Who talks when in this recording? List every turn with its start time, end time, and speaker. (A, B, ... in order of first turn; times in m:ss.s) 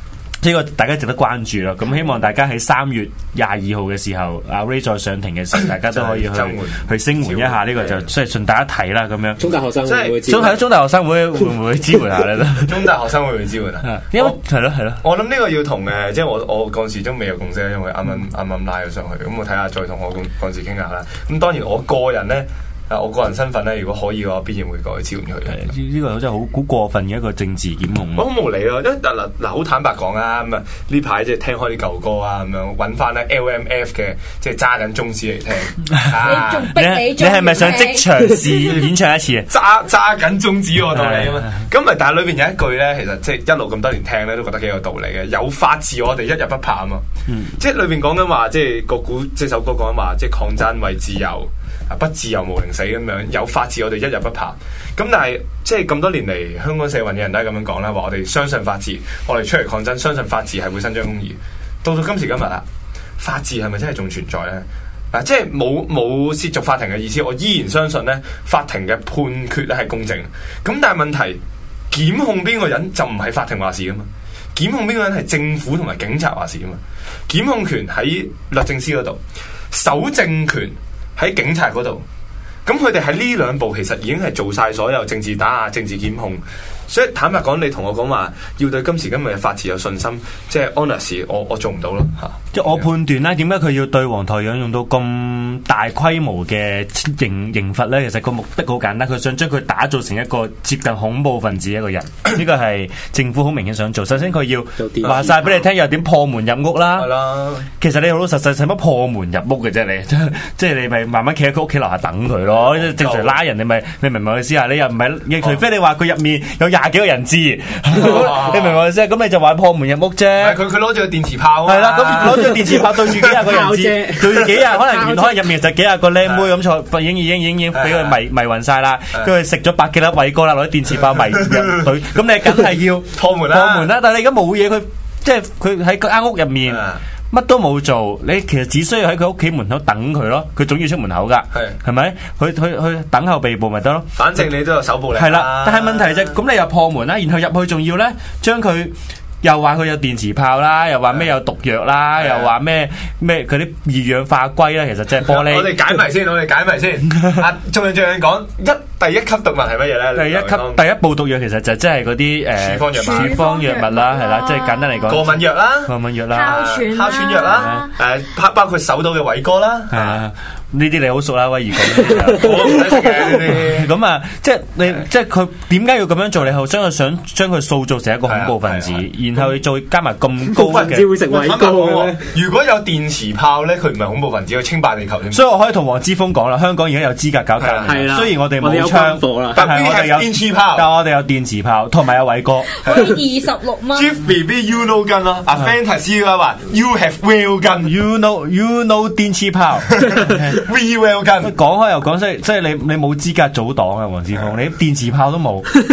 0:00.4-0:09.4 A
0:05.8-0:08.1 B
0:09.4-0:10.6 C
0:09.8-0:10.4 B
0:10.2-0:12.9 A
0:12.6-0:14.4 B
0:13.8-0:15.0 A
0:15.0-0:25.7 B
0:25.5-0:28.3 A
0:28.1-0:36.7 B
0:36.0-0:39.5 A
0:36.2-0:38.8 D
0:39.5-0:47.0 B
0:40.9-0:41.6 A
0:47.3-0:47.5 A
0:47.6-1:02.6 B
1:03.2-1:19.2 B
1:19.7-1:22.0 B
1:22.6-1:32.9 B
1:32.5-1:47.1 A
1:44.8-1:45.5 C
1:45.0-1:45.5 B
1:47.0-1:47.7 B
1:47.8-2:00.6 A
1:52.5-1:53.3 B
1:57.9-1:58.8 B
2:00.4-2:02.8 B
2:01.6-2:24.2 A
2:03.2-2:05.5 C
2:06.2-2:06.5 B
2:07.7-2:08.2 B
2:13.1-2:13.9 B
2:16.7-2:17.0 B
2:24.2-2:26.3 B
2:25.1-2:35.7 A
2:32.2-2:32.5 B
2:35.2-2:40.8 B
2:37.1-2:37.4 A
2:40.1-2:46.6 A
2:42.6-2:43.4 B
2:42.9-2:45.2 D
2:45.1-2:50.2 B
2:46.3-2:47.9 D
2:47.5-2:47.8 A
2:49.9-3:01.1 A
2:52.3-2:53.9 B
2:58.3-2:59.0 B
3:00.5-3:02.2 C
3:00.7-3:05.4 B
3:05.3-3:12.7 A
3:07.6-3:08.0 B
3:07.8-3:09.6 C
3:09.5-3:10.9 B
3:12.8-3:14.1 D
3:12.8-3:13.2 B
3:13.9-3:17.9 B
3:17.8-3:20.6 A
3:20.0-3:21.5 B
3:21.4-3:25.7 A